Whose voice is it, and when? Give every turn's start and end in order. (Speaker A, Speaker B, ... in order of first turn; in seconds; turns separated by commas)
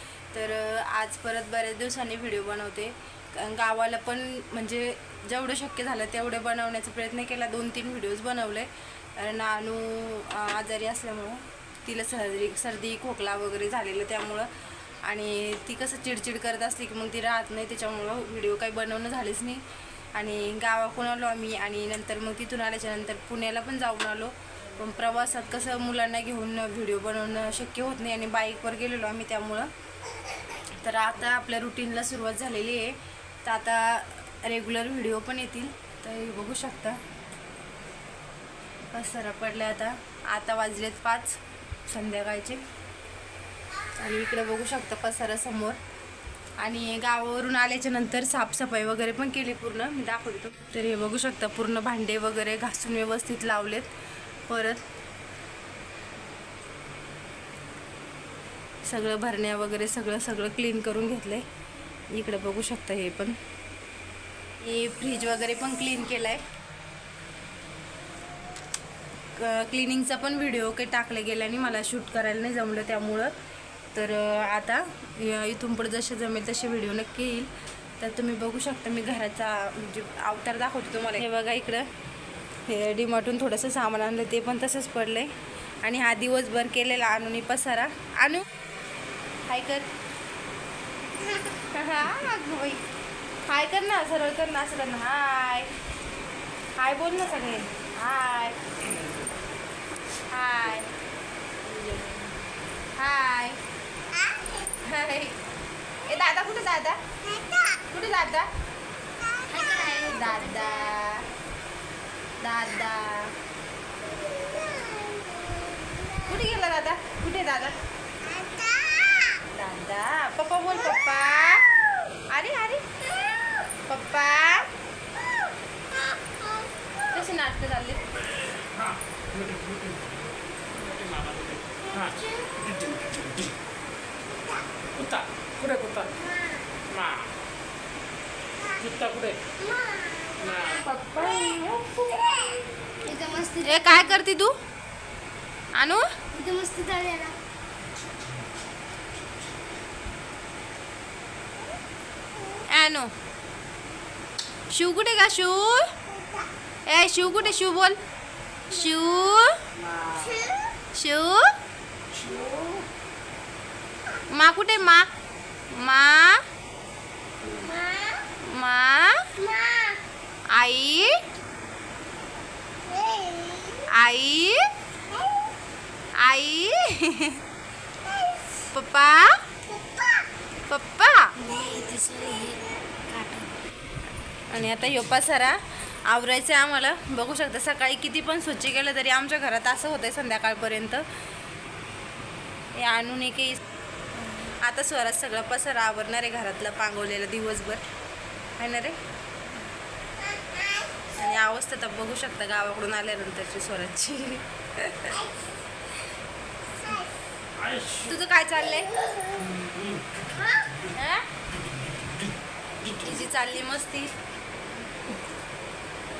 Speaker A: 0.3-14.5, Speaker A: 15.0-29.7, Speaker A: 30.8-37.0, Speaker A: 38.9-42.6, Speaker A: 44.0-45.8, Speaker A: 46.6-53.9, Speaker A: 54.5-54.9, Speaker A: 58.8-61.5, Speaker A: 62.1-63.4, Speaker A: 64.6-66.4, Speaker A: 69.4-73.3, Speaker A: 73.9-81.9, Speaker A: 82.7-88.5, Speaker A: 89.5-89.9, Speaker A: 91.3-92.8, Speaker A: 93.5-95.8, Speaker A: 96.8-98.6, Speaker A: 100.3-100.9, Speaker A: 103.0-103.6, Speaker A: 104.8-105.4, Speaker A: 106.0-107.0, Speaker A: 107.7-108.5, Speaker B: 109.4-110.9, Speaker A: 110.0-111.3, Speaker A: 112.4-113.3, Speaker B: 114.6-115.1, Speaker A: 116.2-117.8, Speaker A: 119.4-121.7, Speaker A: 122.3-122.8, Speaker A: 123.9-124.7, Speaker A: 127.1-128.0, Speaker C: 129.4-129.9, Speaker C: 130.9-132.2, Speaker C: 132.7-133.5, Speaker C: 135.0-136.2, Speaker C: 136.9-137.2, Speaker C: 138.8-139.4, Speaker B: 140.2-140.9, Speaker C: 140.5-142.0, Speaker B: 143.0-144.1, Speaker A: 143.6-144.6, Speaker A: 145.8-146.1, Speaker B: 146.3-147.4, Speaker A: 152.7-153.1, Speaker A: 154.7-155.9, Speaker A: 156.9-158.0, Speaker A: 158.7-159.6, Speaker B: 160.2-160.6, Speaker A: 160.9-161.5, Speaker A: 164.3-165.1, Speaker A: 165.7-166.4, Speaker B: 167.6-168.1, Speaker A: 168.4-169.4, Speaker B: 169.7-170.0, Speaker A: 170.5-171.2, Speaker B: 173.0-173.8, Speaker A: 173.9-174.7, Speaker A: 176.2-177.4, Speaker A: 178.7-179.4, Speaker A: 180.7-181.4, Speaker B: 181.4-183.5, Speaker A: 184.5-191.1, Speaker A: 192.8-193.6, Speaker A: 194.4-197.8, Speaker A: 198.6-199.0, Speaker A: 201.2-205.3, Speaker A: 208.0-209.0, Speaker A: 210.9-211.2, Speaker A: 212.8-214.1